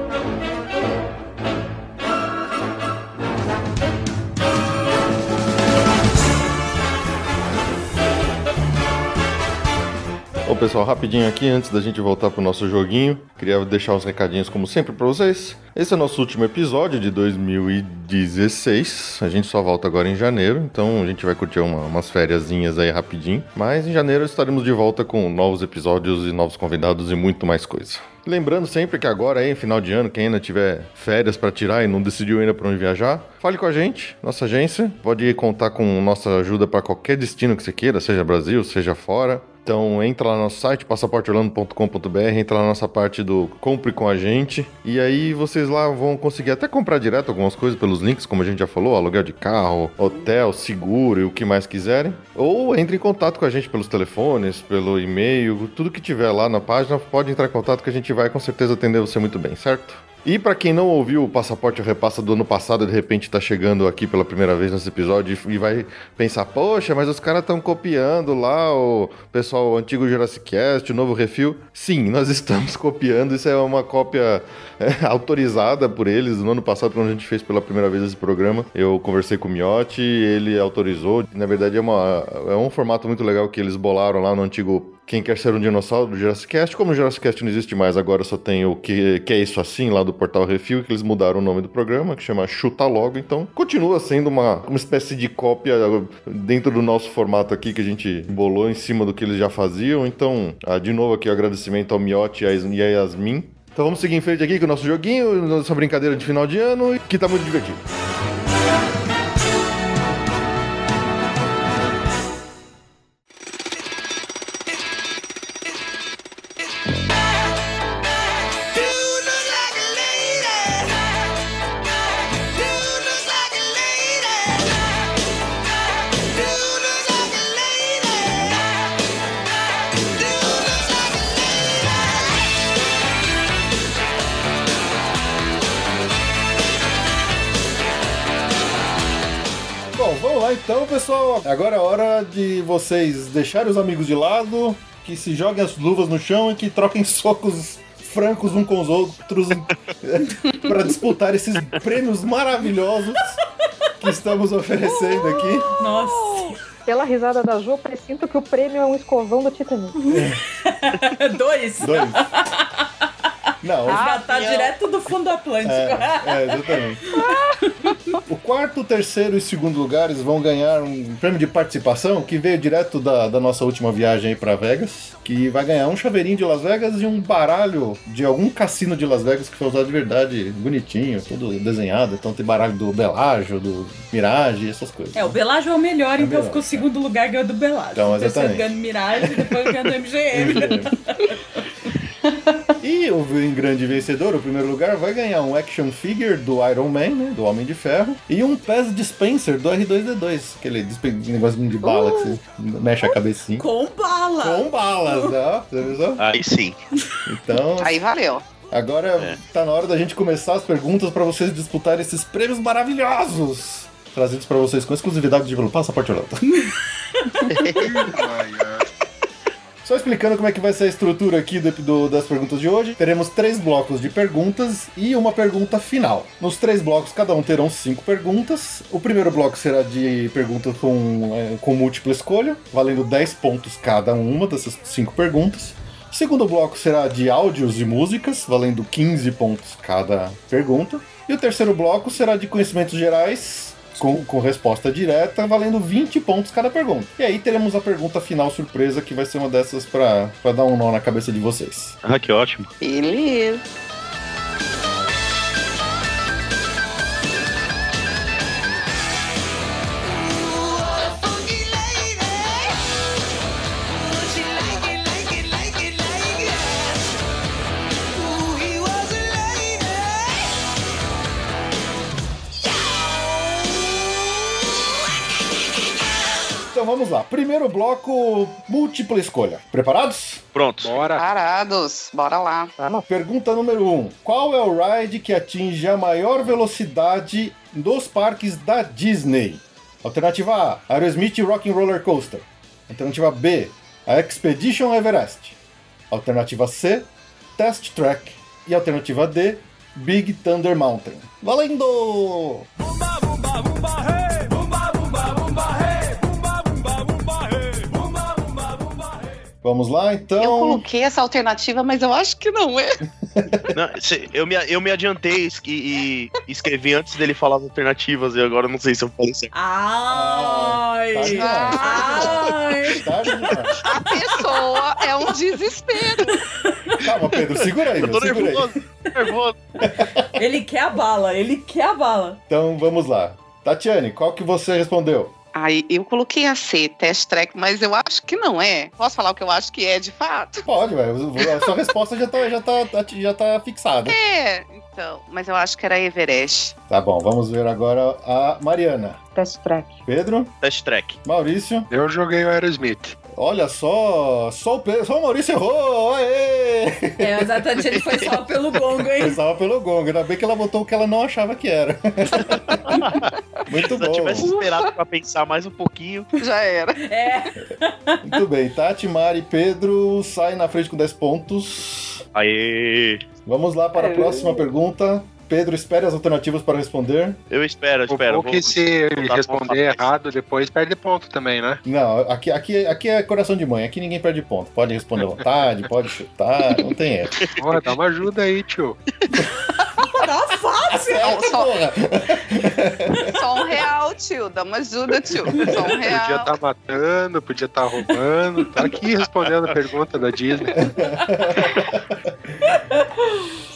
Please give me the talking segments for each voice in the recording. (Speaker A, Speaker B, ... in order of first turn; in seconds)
Speaker A: 10.4-107.8, 139.9-153.4, 154.0-155.7, 160.1-160.4, 161.8-162.2, 163.6-164.2, 165.6-167.0, 168.2-185.4, 186.2-186.9, 187.9-189.8, 190.3-190.9, 192.8-203.7, 204.4-206.2, 207.2-208.0, 208.7-216.4, 219.8-252.0, 276.7-280.4, 283.1-295.6, 296.1-302.7, 309.6-310.8, 313.3-313.6, 320.1-323.8, 327.0-328.7, 329.8-330.3, 332.5-335.3, 340.6-344.2, 346.9-349.2, 350.1-350.5, 351.2-351.9, 353.3-357.6, 359.1-363.0, 363.7-364.5, 368.2-372.2, 373.4-377.4, 381.9-387.4, 390.9-393.4, 400.8-402.6
Speaker B: 119.6-119.9, 154.9-156.5, 163.9-164.7, 207.8-208.5, 252.8-253.7, 260.2-262.6, 264.1-267.1, 268.2-270.1, 281.1-282.7, 310.4-313.0, 321.2-322.4, 323.8-326.4, 335.5-340.7, 344.1-346.7, 364.4-364.9, 366.4-367.0, 391.2-391.7, 393.3-396.5
Speaker C: 155.7-156.6, 159.9-163.0, 163.8-168.0, 185.2-191.4, 203.0-205.3, 216.5-217.3, 319.5-323.6, 326.3-327.0, 330.3-332.4, 357.2-359.4, 367.0-368.4, 390.0-391.5, 402.6-403.2
Speaker D: 156.8-159.9, 282.8-283.0, 349.3-350.0
Speaker E: 206.2-206.8, 252.0-252.7, 280.5-281.0, 313.7-319.5, 327.9-329.6, 350.6-351.2, 358.0-358.3, 362.4-363.3, 363.9-366.3, 372.3-373.2, 377.5-380.1, 387.4-387.9, 399.4-399.7
Speaker F: 217.6-218.9, 280.8-281.2, 351.9-353.2, 378.1-381.8, 387.6-389.0, 395.6-401.1